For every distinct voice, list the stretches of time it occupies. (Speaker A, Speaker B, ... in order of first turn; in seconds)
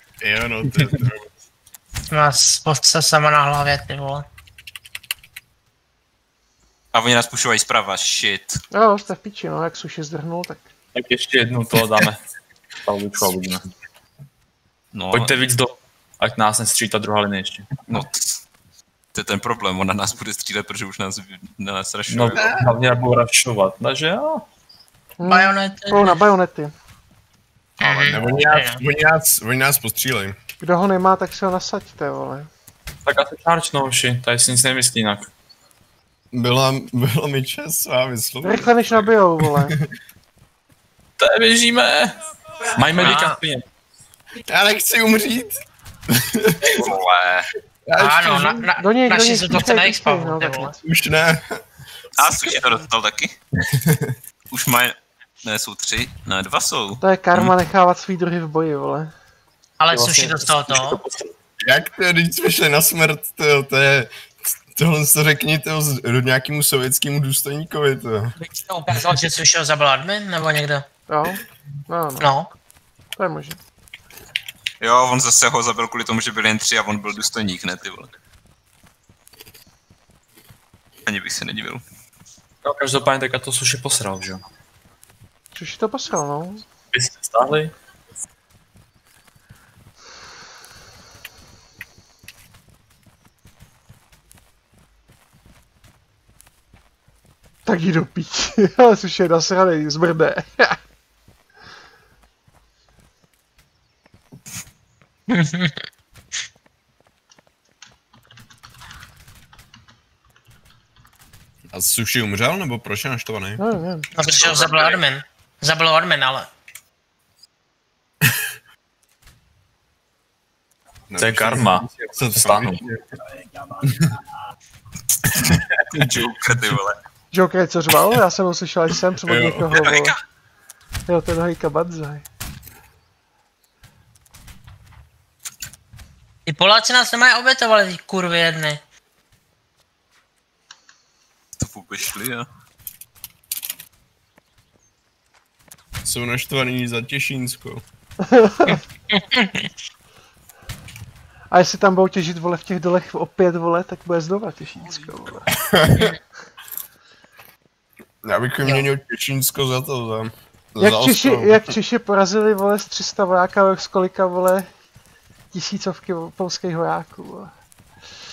Speaker A: 0.2-1.3, 22.4-22.7, 27.8-30.4, 36.3-39.1, 44.5-46.9, 47.9-48.6, 50.8-51.6, 53.8-54.1, 61.6-64.1, 64.7-68.3, 111.7-113.6, 121.1-123.0, 123.9-124.1, 129.2-129.7, 146.1-147.8, 155.5-156.1, 158.2-161.7
Speaker B: 2.1-4.3, 25.2-26.2, 27.8-28.8, 43.0-43.4, 48.0-50.8, 59.8-61.0, 68.4-70.8, 72.2-72.5, 105.3-105.8, 114.2-116.5, 136.5-138.8, 148.7-149.7
Speaker C: 6.9-8.6, 14.9-15.3, 17.9-18.3, 19.1-22.4, 46.7-47.5, 52.2-53.4, 54.5-57.5, 74.8-78.1, 81.1-81.8, 114.2-115.0, 125.9-127.0, 129.7-130.2, 141.6-142.5
Speaker D: 8.7-10.7, 25.2-26.7, 30.6-32.5, 38.4-39.8, 48.8-50.8, 57.0-59.1, 71.1-72.3, 73.2-73.6, 85.5-86.7, 97.7-100.8, 113.6-114.1, 127.3-130.2, 131.1-132.2, 148.2-148.8, 151.5-155.5, 160.8-164.7, 165.5-167.5
Speaker E: 10.9-12.2, 12.8-13.7, 15.1-18.1, 22.1-24.5, 33.0-35.3, 41.2-43.7, 46.6-46.9, 59.9-61.5, 82.6-84.4, 86.9-87.7, 121.2-122.8